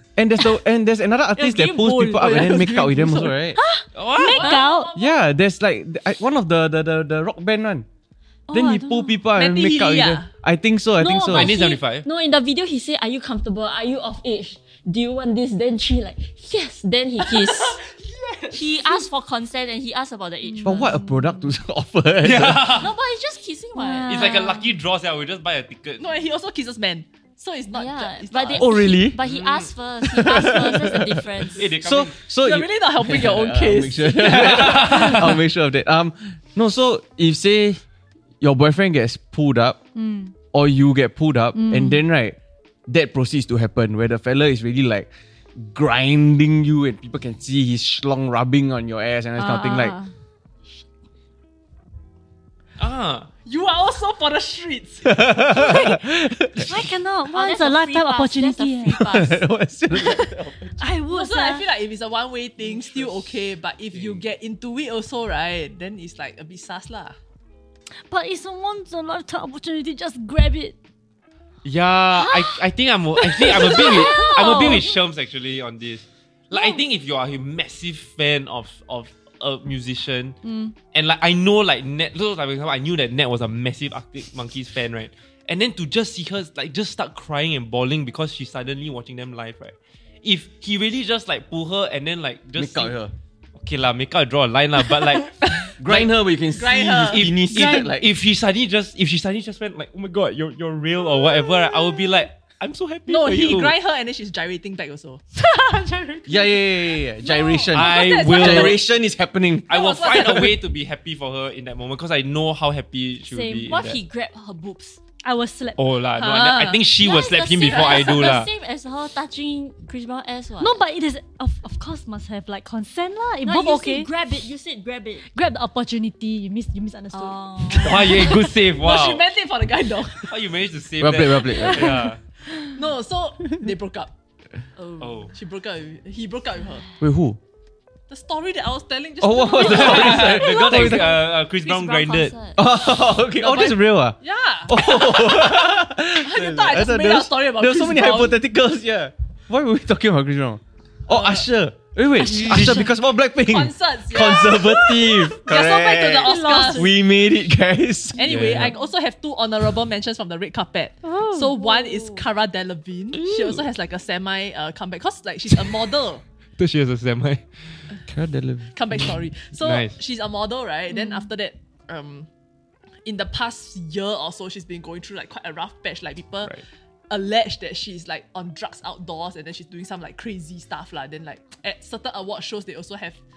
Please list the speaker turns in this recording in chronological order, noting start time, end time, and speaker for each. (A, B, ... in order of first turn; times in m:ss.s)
0:00.2-0:03.6 A
0:01.4-0:02.4 B
0:02.1-0:03.4 C
0:03.5-0:04.9 D
0:04.0-0:04.6 E
0:04.2-0:05.2 C
0:04.4-0:04.6 B
0:05.0-0:07.9 A
0:08.5-0:09.3 D
0:08.5-0:11.6 A
0:09.4-0:10.3 C
0:11.0-0:17.8 B
0:11.2-0:12.1 E
0:17.2-0:19.0 C
0:18.5-0:21.0 B
0:20.4-0:21.5 D
0:20.6-0:22.8 A
0:22.2-0:22.9 E
0:22.7-0:24.7 B
0:23.8-0:24.7 D
0:24.0-0:26.2 E
0:26.0-0:29.0 C
0:27.7-0:31.7 B
0:28.6-0:29.2 A
0:29.2-0:29.7 E
0:30.1-0:37.8 A
0:31.6-0:32.2 E
0:32.4-0:35.3 C
0:34.2-0:35.4 E
0:38.4-0:39.8 A
0:40.0-0:40.3 D
0:40.5-0:42.4 A
0:41.6-0:42.0 D
0:42.9-0:50.0 A
0:49.4-0:50.1 D
0:52.8-0:53.3 E
0:53.4-0:55.3 C
0:55.0-0:56.9 A
0:55.5-0:56.0 D
0:56.7-0:59.0 D
0:57.3-0:59.4 B
0:58.9-1:00.8 A
1:00.0-1:01.7 D
1:01.1-1:07.2 C
1:02.6-1:03.2 E
1:03.9-1:04.2 E
1:08.1-1:10.8 D
1:11.6-1:20.4 E
1:13.3-1:14.9 D
1:13.8-1:14.8 B
1:16.5-1:16.8 D
1:20.4-1:20.8 D
1:20.9-1:33.0 E
1:32.6-1:33.1 A
1:33.6-1:36.1 E
1:35.4-1:37.3 C
1:35.8-1:38.1 A
1:37.0-1:43.8 E
1:37.5-1:37.9 D
1:43.1-1:45.3 C
1:45.4-1:46.6 D
1:46.3-1:50.3 A
1:47.2-1:48.9 C
1:47.7-1:48.8 E
1:49.7-1:50.6 C
1:49.7-1:54.0 E
1:53.3-1:53.7 D
1:53.7-1:55.0 B
1:55.2-1:55.8 D
1:55.8-1:58.5 E
1:56.2-1:56.8 C
1:57.0-2:00.8 B
1:57.7-1:58.2 C
2:00.6-2:04.1 D
2:03.4-2:05.3 B
2:05.2-2:08.4 D
2:07.1-2:08.4 B
2:07.7-2:09.2 E
2:08.3-2:10.4 C
2:10.2-2:12.2 E
2:11.0-2:12.1 A
2:11.5-2:11.9 D
2:12.7-2:14.1 C
2:14.8-2:15.3 B
2:15.0-2:15.3 E
2:15.3-2:16.9 C
2:17.0-2:17.4 A
2:18.1-2:20.7 C
2:19.2-2:21.2 A
2:19.6-2:22.3 E
2:20.7-2:22.6 B
2:22.6-2:38.7 A
2:23.3-2:28.4 C
2:31.1-2:31.5 C
2:32.2-2:32.9 D
2:32.4-2:32.9 E
2:33.5-2:36.9 C
2:36.2-2:36.9 D
2:38.2-2:46.2 C
2:41.0-2:42.0 D
2:41.6-2:42.2 B
2:43.1-2:43.7 E
2:45.5-2:45.8 E
2:46.6-2:47.9 E
2:48.1-2:49.3 A
2:48.7-2:52.3 C
2:49.6-2:50.0 E
2:50.9-2:51.3 D
2:53.0-3:03.2 C